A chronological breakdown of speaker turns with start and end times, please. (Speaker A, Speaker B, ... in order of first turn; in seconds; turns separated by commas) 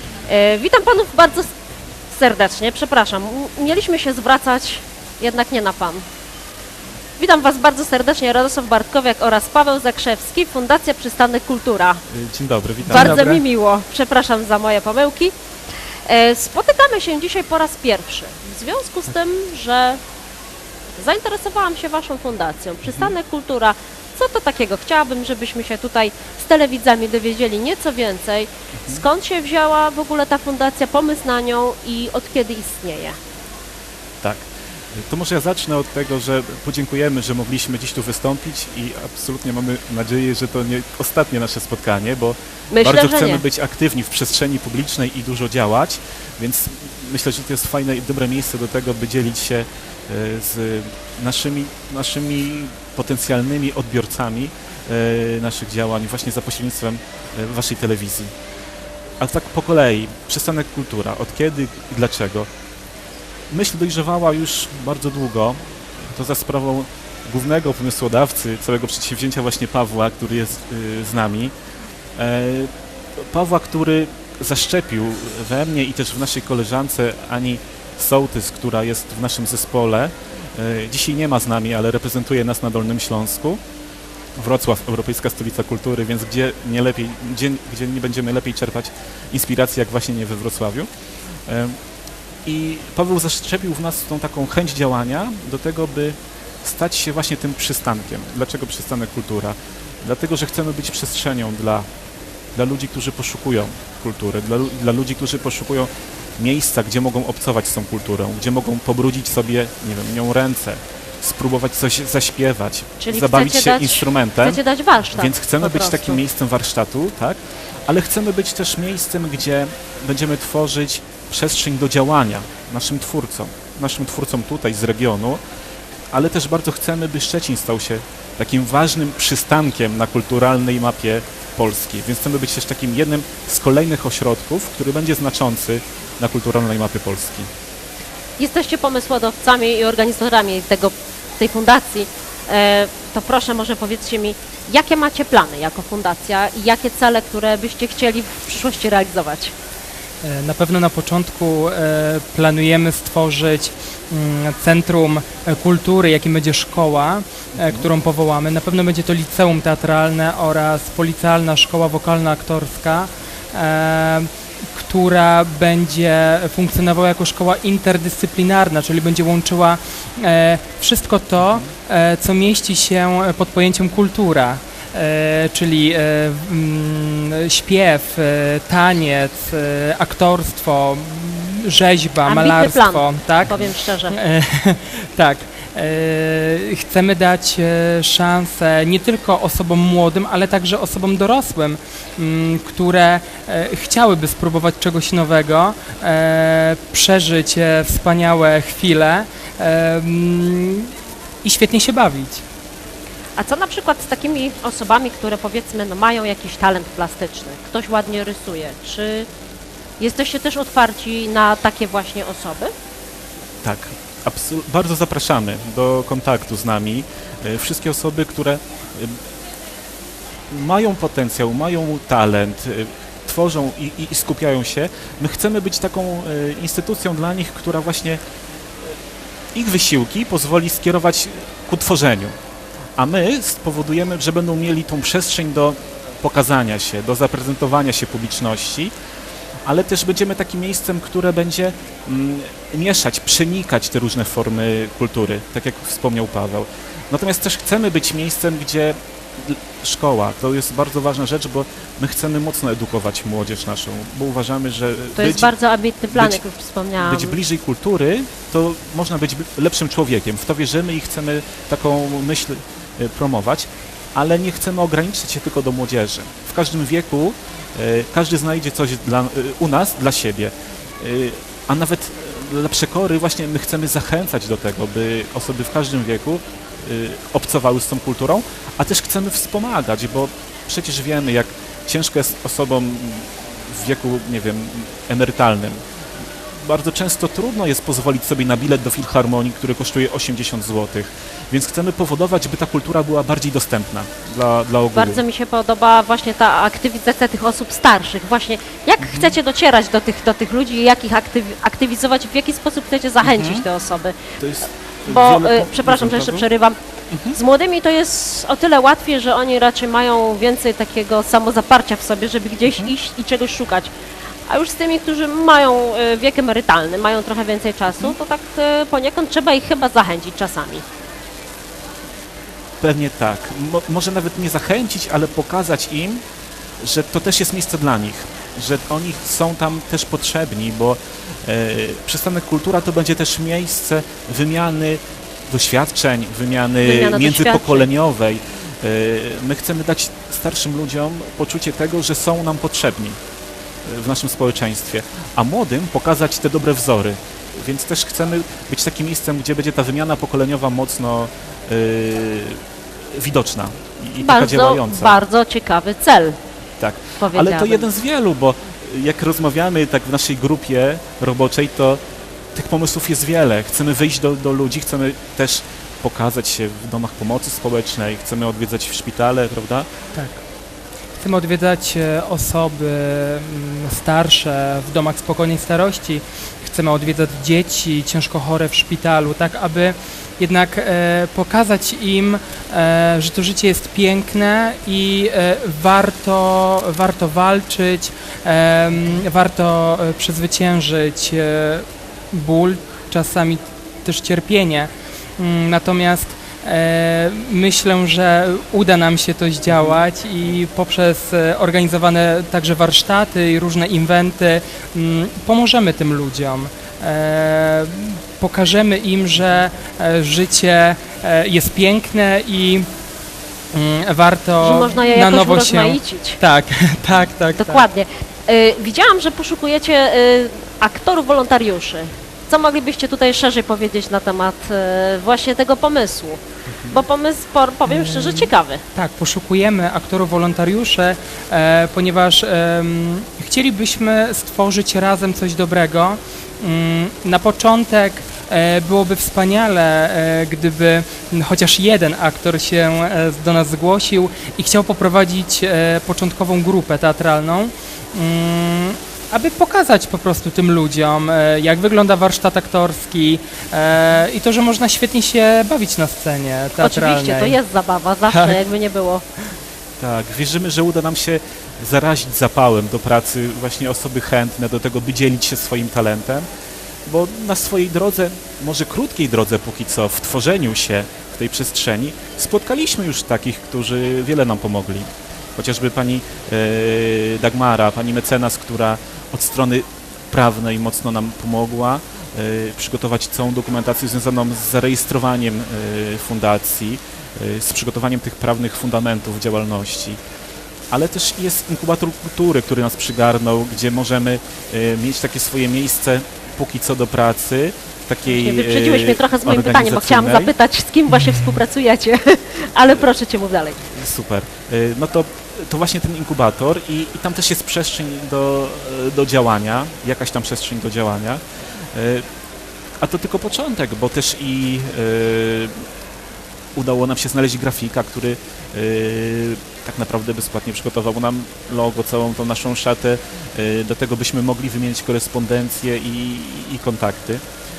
Speaker A: 0.2-1.5, Speaker A: 2.1-6.0, Speaker A: 7.2-12.0, Speaker B: 12.1-13.4, Speaker A: 12.8-15.3, Speaker A: 16.1-20.0, Speaker A: 20.9-33.1, Speaker B: 34.2-58.3, Speaker A: 42.7-43.4, Speaker B: 59.2-62.5, Speaker B: 63.5-71.5, Speaker B: 72.2-83.6, Speaker B: 84.4-90.9, Speaker B: 91.5-91.8, Speaker B: 92.5-101.9, Speaker B: 102.5-114.6, Speaker A: 113.0-116.2, Speaker B: 115.1-125.4, Speaker B: 126.1-137.5, Speaker A: 138.4-149.5, Speaker C: 150.2-183.6, Speaker B: 157.6-157.9, Speaker B: 171.4-171.7, Speaker A: 182.2-184.1, Speaker C: 184.1-200.9, Speaker C: 201.4-202.4, Speaker A: 203.3-209.3, Speaker A: 210.0-212.7, Speaker B: 213.6-219.2, Speaker B: 220.5-228.2, Speaker B: 229.5-232.3, Speaker B: 233.0-238.9, Speaker B: 239.6-255.5, Speaker A: 255.2-257.4, Speaker B: 256.1-256.4, Speaker B: 257.0-285.8, Speaker B: 286.6-295.2, Speaker A: 294.9-304.3, Speaker B: 299.0-299.3, Speaker B: 303.2-303.6, Speaker B: 304.4-306.5, Speaker A: 305.1-306.8, Speaker B: 307.1-307.4, Speaker A: 307.3-313.9, Speaker A: 314.5-320.8, Speaker B: 322.8-326.2, Speaker B: 326.8-343.2, Speaker A: 336.8-337.9, Speaker B: 343.8-355.2, Speaker A: 354.2-356.4, Speaker B: 356.8-362.0, Speaker A: 357.2-357.9, Speaker B: 362.5-369.9, Speaker C: 370.1-370.4, Speaker C: 371.2-412.9, Speaker B: 399.7-400.0, Speaker C: 413.7-417.9, Speaker A: 414.6-416.4, Speaker A: 417.6-428.8, Speaker B: 426.7-427.0, Speaker C: 427.9-457.6, Speaker A: 456.8-459.2, Speaker C: 458.3-458.6, Speaker B: 460.0-466.5, Speaker B: 467.1-490.2, Speaker B: 490.9-500.5, Speaker A: 498.3-503.8, Speaker B: 503.9-511.4, Speaker B: 511.9-512.2, Speaker B: 513.0-515.9, Speaker B: 516.7-527.4